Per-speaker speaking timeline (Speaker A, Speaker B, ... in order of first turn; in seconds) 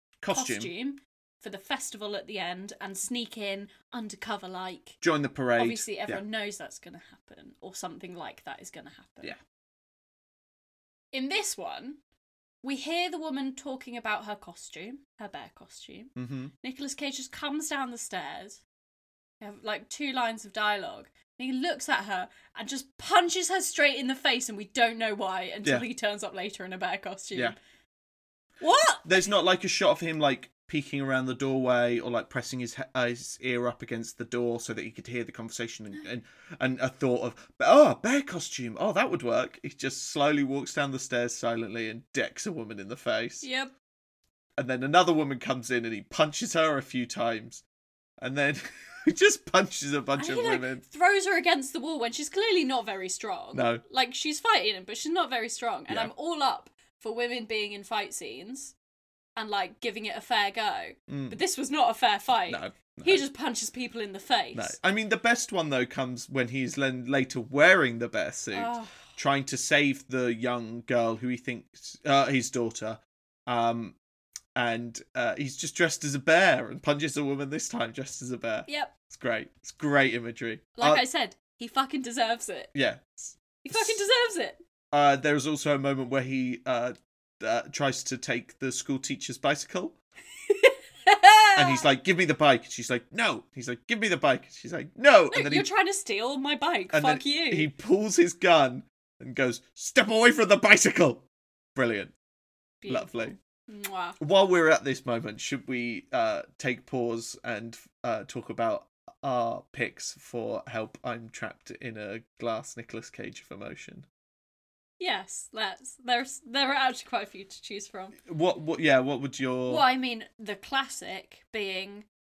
Speaker A: 0.2-0.7, 5.0-6.2, 16.1-16.5, 29.0-43.4, 44.6-47.6, 48.2-50.8, 53.5-53.8, 61.1-61.4, 62.5-63.2, 64.5-74.0, 74.5-81.0, 82.7-84.0, 84.9-89.9, 91.5-95.7, 96.9-102.1, 102.9-103.3, 104.2-114.0, 118.2-119.8
Speaker B: 0.3-5.0, 5.5-9.3, 11.1-12.0, 12.6-18.6, 19.4-27.6, 28.6-29.1, 43.4-43.7, 50.2-58.7, 59.4-64.8, 68.5-69.1, 78.7-78.9, 80.8-82.7, 83.6-84.6, 90.5-91.8, 95.3-97.7, 102.8-104.2, 115.0-118.2, 119.7-122.0